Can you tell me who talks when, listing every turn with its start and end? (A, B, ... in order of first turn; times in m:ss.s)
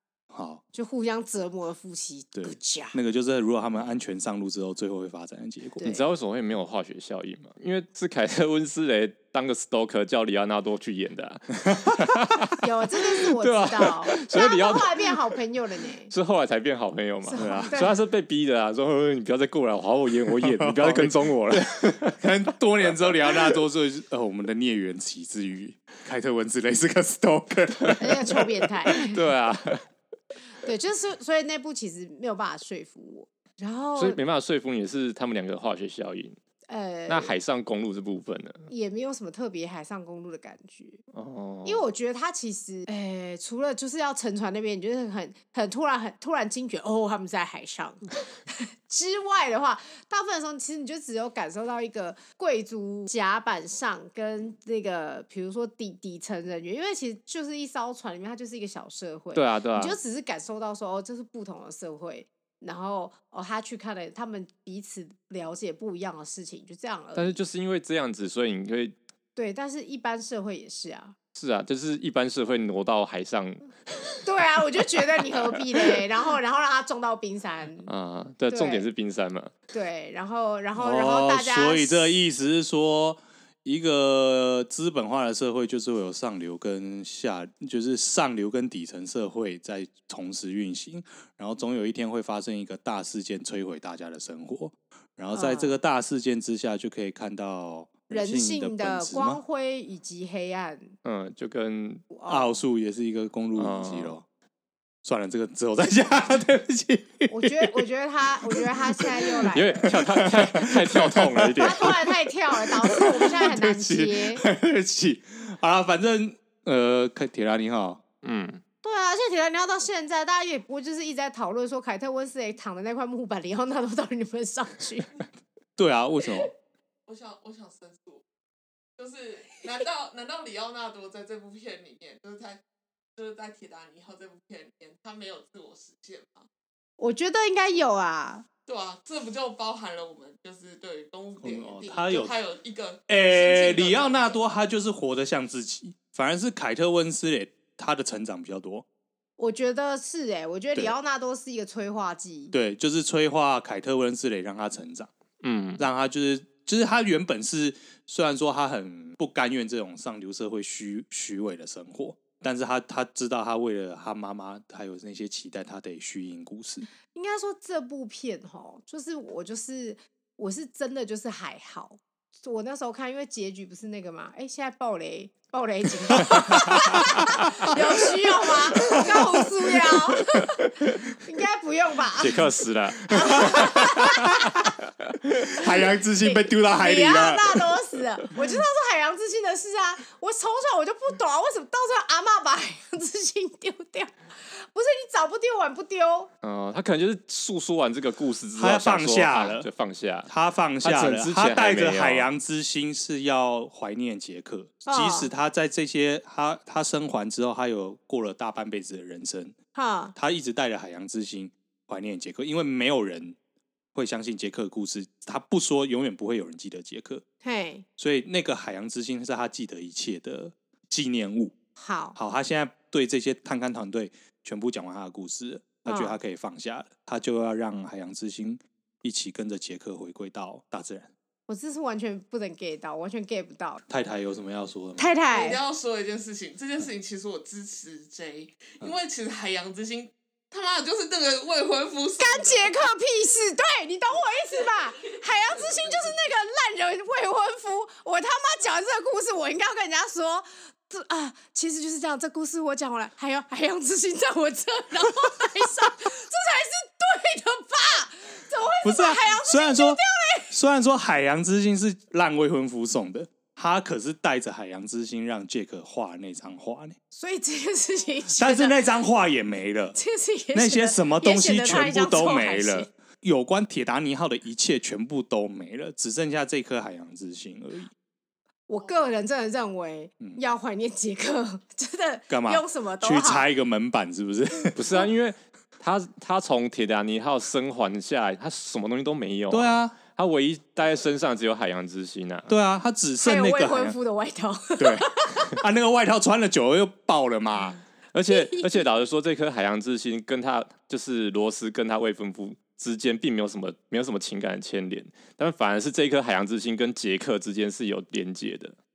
0:00.3-0:00.6 A
0:00.7-0:03.0 B
0:02.4-0:05.9 A
0:05.8-0:06.0 B
0:05.8-0:12.5 C
0:12.6-0:16.1 B
0:13.4-0:15.2 C
0:16.1-0:22.2 C
0:17.2-0:18.0 B
0:17.4-0:17.7 A
0:20.4-0:28.4 A
0:28.0-0:29.2 B
0:28.9-0:29.9 C
0:30.6-0:34.2 B
0:34.0-0:36.4 C
0:36.7-0:37.3 B
0:37.1-0:38.7 C
0:38.7-0:41.0 B
0:41.1-0:41.9 C
0:41.6-1:07.4 B
0:59.3-1:00.0 C
1:07.2-1:09.0 C
1:09.4-1:11.2 B
1:11.4-1:13.6 C
1:14.2-1:17.9 B
1:17.9-1:19.5 C
1:18.5-1:18.9 B
1:19.7-1:22.2 B
1:20.8-1:39.4 A
1:35.3-1:35.8 B
1:38.1-1:41.0 B
1:41.0-1:42.0 C
1:42.1-1:42.6 B
1:42.3-1:44.2 A
1:43.6-1:44.2 C
1:45.0-1:47.8 A
1:47.3-1:49.9 B
1:48.4-1:52.1 A
1:49.5-1:51.9 C
1:51.6-1:54.4 B
1:52.8-1:58.0 A
1:58.2-1:58.6 C
1:58.8-2:05.1 B
2:05.8-2:06.5 A
2:07.1-2:08.2 D
2:09.0-2:12.6 D
2:13.2-2:16.5 D
2:17.0-2:18.4 B
2:18.7-2:24.4 D
2:21.4-2:22.4 A
2:23.1-2:28.8 A
2:29.4-2:32.5 B
2:32.5-2:35.1 A
2:35.4-2:35.8 C
2:35.8-2:46.9 A
2:47.1-3:02.5 B
2:56.5-2:56.9 A
3:00.6-3:01.0 C
3:02.2-3:04.5 C
3:03.1-3:04.5 B
3:03.1-3:04.6 A
3:05.5-3:07.7 A
3:06.2-3:16.3 B
3:16.4-3:20.3 C
3:18.6-3:19.7 A
3:20.3-3:29.6 A
3:20.8-3:22.3 C
3:24.9-3:25.3 B
3:29.8-3:30.2 B
3:30.2-3:33.4 A
3:33.9-3:37.2 A
3:37.4-3:37.8 B
3:38.0-3:41.5 A
3:41.8-3:42.2 B
3:42.2-3:51.1 A
3:45.8-3:46.2 B
3:51.5-3:53.8 B
3:53.9-3:55.1 A
3:55.0-3:55.6 B
3:55.3-4:02.8 D
4:02.2-4:20.5 B
4:18.8-4:27.0 A
4:27.1-4:28.8 B
4:28.4-4:30.0 A
4:30.0-4:32.9 B
4:30.5-4:37.9 A
4:38.7-4:43.5 B
4:42.3-4:44.8 A
4:44.8-4:52.5 C
4:49.5-4:50.0 A
4:52.5-4:54.0 A
4:53.2-4:55.6 B
4:54.8-4:57.8 A
4:58.1-5:08.8 C
4:58.3-4:58.8 B